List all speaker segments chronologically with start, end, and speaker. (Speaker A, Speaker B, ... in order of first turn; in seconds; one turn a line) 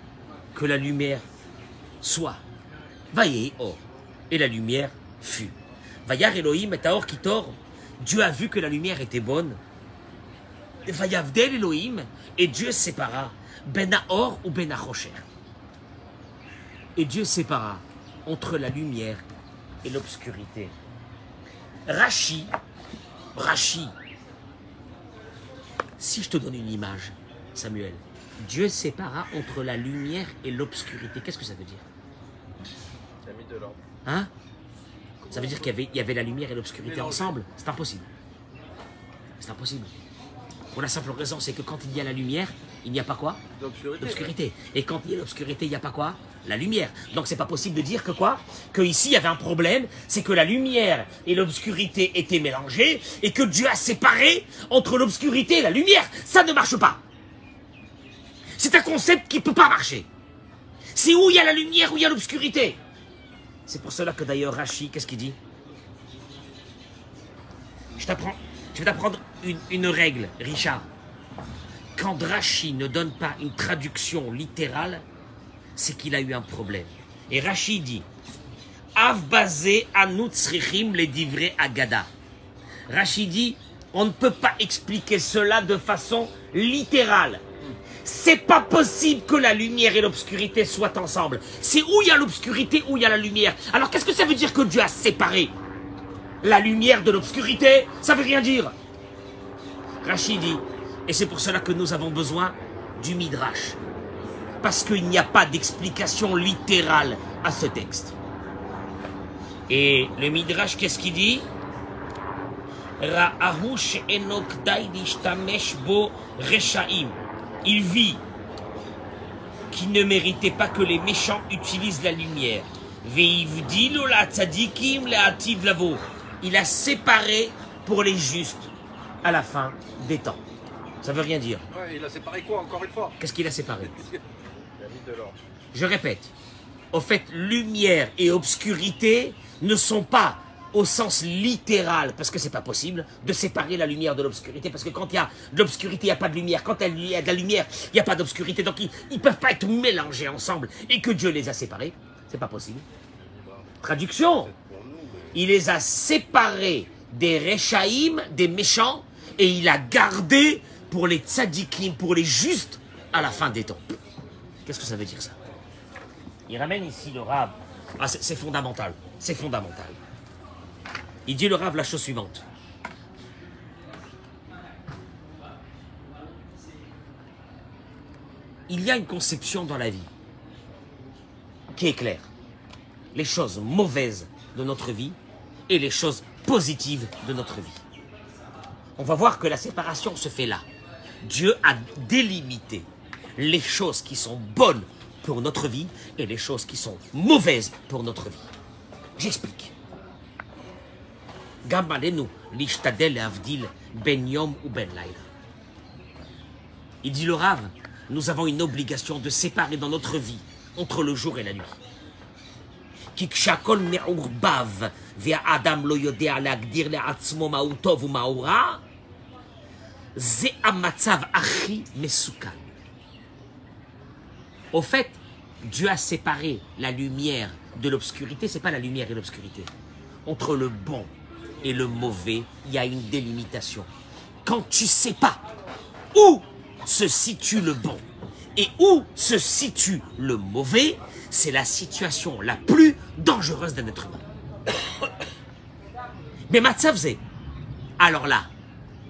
Speaker A: 0.5-1.3
Speaker A: 2.0-2.4
Speaker A: 3.1-9.6
Speaker A: 10.8-15.3
Speaker A: 17.0-19.2
Speaker A: 19.8-20.7
Speaker A: 21.9-22.5
Speaker A: 23.4-23.9
Speaker A: 26.0-31.9
Speaker B: 33.2-33.8
Speaker A: 34.0-34.3
Speaker A: 35.3-38.1
Speaker C: 36.8-37.4
Speaker A: 39.4-39.9
Speaker A: 40.7-43.4
Speaker C: 43.6-44.3
Speaker A: 44.0-57.0
Speaker A: 58.6-60.1
Speaker A: 60.9-62.8
Speaker A: 63.7-65.4
Speaker A: 68.0-70.9
Speaker A: 72.0-75.0
Speaker A: 75.8-78.0
Speaker A: 79.0-82.1
Speaker A: 82.9-87.4
Speaker A: 88.0-95.5
Speaker A: 96.4-98.8
Speaker A: 100.0-103.8
Speaker A: 104.6-108.2
Speaker A: 109.7-111.5
Speaker A: 113.0-118.2
Speaker A: 119.7-128.7
Speaker A: 129.2-130.4
Speaker A: 131.0-131.6
Speaker C: 131.7-133.2
Speaker A: 133.2-134.0
Speaker C: 133.8-134.2
Speaker B: 134.8-135.4
Speaker A: 135.7-136.3
Speaker A: 136.9-152.8
Speaker B: 153.2-153.7
Speaker A: 153.8-154.5
Speaker B: 154.5-155.3
Speaker A: 155.3-163.9
Speaker A: 164.7-165.4
Speaker A: 166.5-170.0
Speaker A: 171.3-172.4
Speaker A: 178.7-180.1
Speaker A: 181.7-182.3
Speaker A: 183.1-185.2
Speaker A: 185.7-187.8
Speaker A: 189.0-190.7
Speaker A: 191.2-198.5
Speaker A: 199.2-199.7
Speaker A: 201.7-205.3
Speaker A: 207.0-211.8
Speaker A: 213.2-218.8
Speaker A: 220.2-222.7
Speaker A: 224.7-229.7
Speaker A: 230.2-231.1
Speaker A: 231.6-233.9
Speaker A: 234.4-235.4
Speaker A: 236.1-238.0
Speaker A: 238.6-244.2
Speaker A: 246.5-247.2
Speaker A: 248.0-248.5